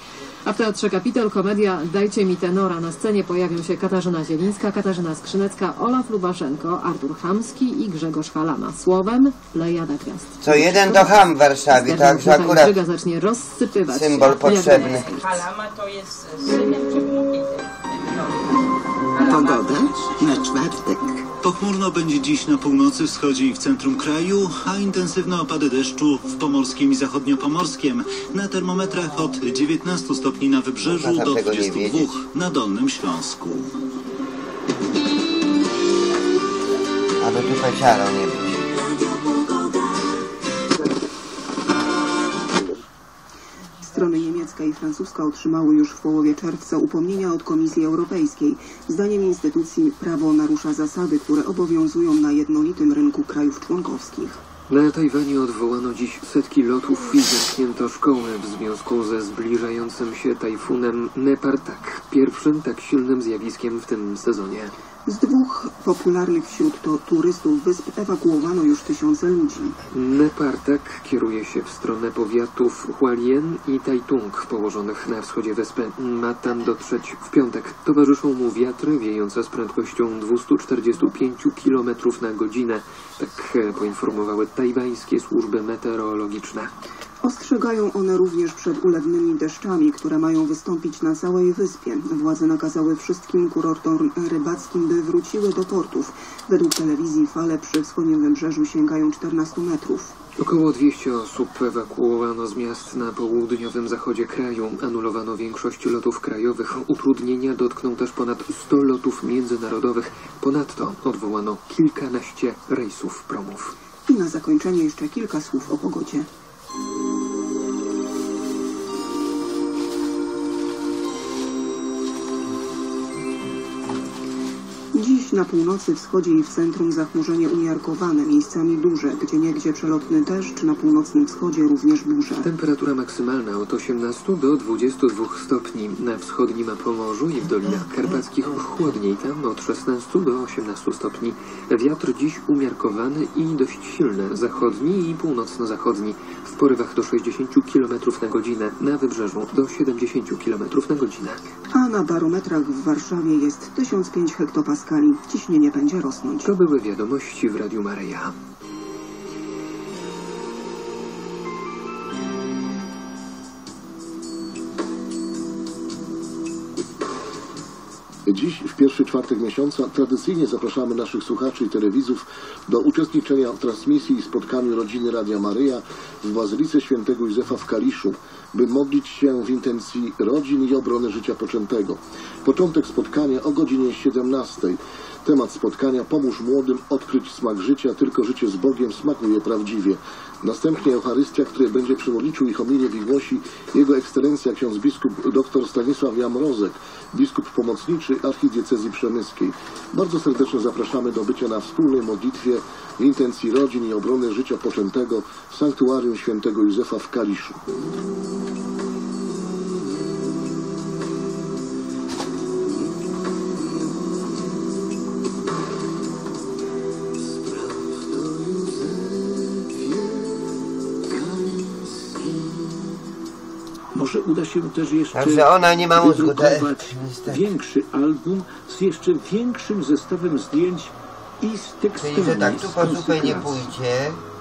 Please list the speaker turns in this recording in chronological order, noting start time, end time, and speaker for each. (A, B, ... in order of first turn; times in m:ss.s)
0:00.4-0:15.4 A
0:10.4-0:12.7 B
0:13.9-0:15.1 B
0:14.4-0:18.5 C
0:19.1-0:19.8 C
0:19.2-0:21.2 D
0:21.4-0:33.8 E
0:30.9-0:32.2 B
0:37.2-0:38.6 B
0:43.8-0:54.4 F
0:54.7-1:04.7 G
1:05.1-1:09.8 F
1:09.9-1:26.7 G
1:27.2-1:40.1 F
1:40.4-1:53.7 G
1:54.1-1:56.3 F
2:04.9-2:12.5 F
2:12.4-2:31.5 G
2:31.7-2:36.5 F
2:36.4-2:38.4 G
2:48.2-3:27.6 H
3:41.3-3:42.2 I
3:43.9-3:53.7 I
3:45.1-3:47.5 B
3:51.9-3:54.2 B